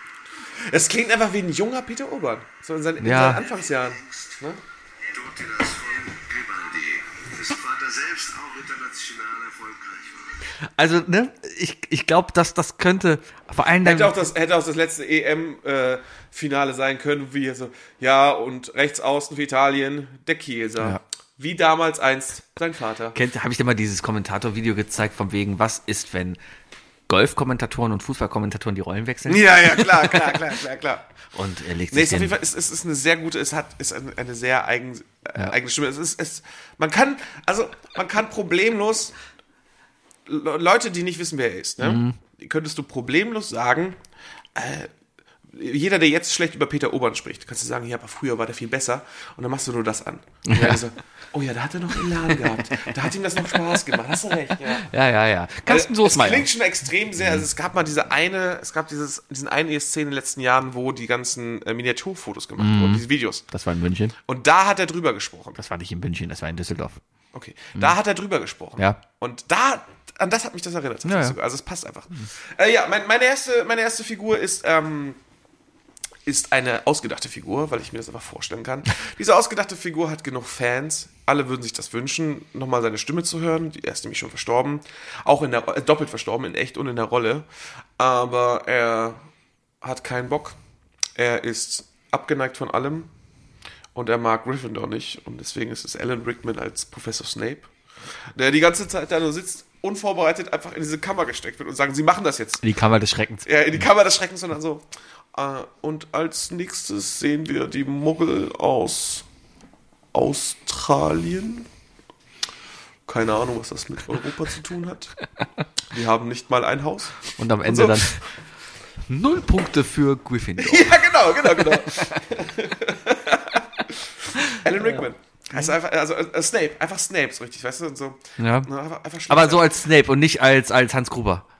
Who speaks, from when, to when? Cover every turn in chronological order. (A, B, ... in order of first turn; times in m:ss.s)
0:00.7-0:04.6 A
0:03.0-0:03.4 B
0:04.0-0:04.3 C
0:05.1-0:10.4 C
0:10.8-0:14.2 B
0:13.8-0:23.2 A
0:23.1-0:26.4 B
0:27.1-0:30.4 B
0:29.3-0:31.0 A
0:31.3-0:32.3 B
0:31.9-0:39.1 A
0:40.2-0:44.0 A
0:41.8-0:42.2 B
0:44.5-0:44.9 A
0:45.5-0:54.9 A
0:50.5-0:50.8 B
0:54.7-0:56.5 B
0:55.7-1:03.4 A
1:02.6-1:04.1 B
1:04.2-1:05.6 A
1:05.6-1:07.0 B
1:07.3-1:15.2 A
1:11.0-1:11.4 B
1:16.2-1:27.5 A
1:28.0-1:29.2 A
1:29.8-1:30.6 A
1:31.2-1:33.1 A
1:33.9-1:37.7 A
1:38.3-1:42.6 A
1:42.6-1:43.5 B
1:43.4-1:49.2 A
1:50.1-1:51.7 A
1:53.0-1:55.1 A
1:55.9-1:58.1 A
1:57.4-1:58.2 B
1:59.1-2:02.2 B
2:00.6-2:09.7 A
2:04.4-2:05.0 B
2:08.4-2:08.7 B
2:09.3-2:11.4 B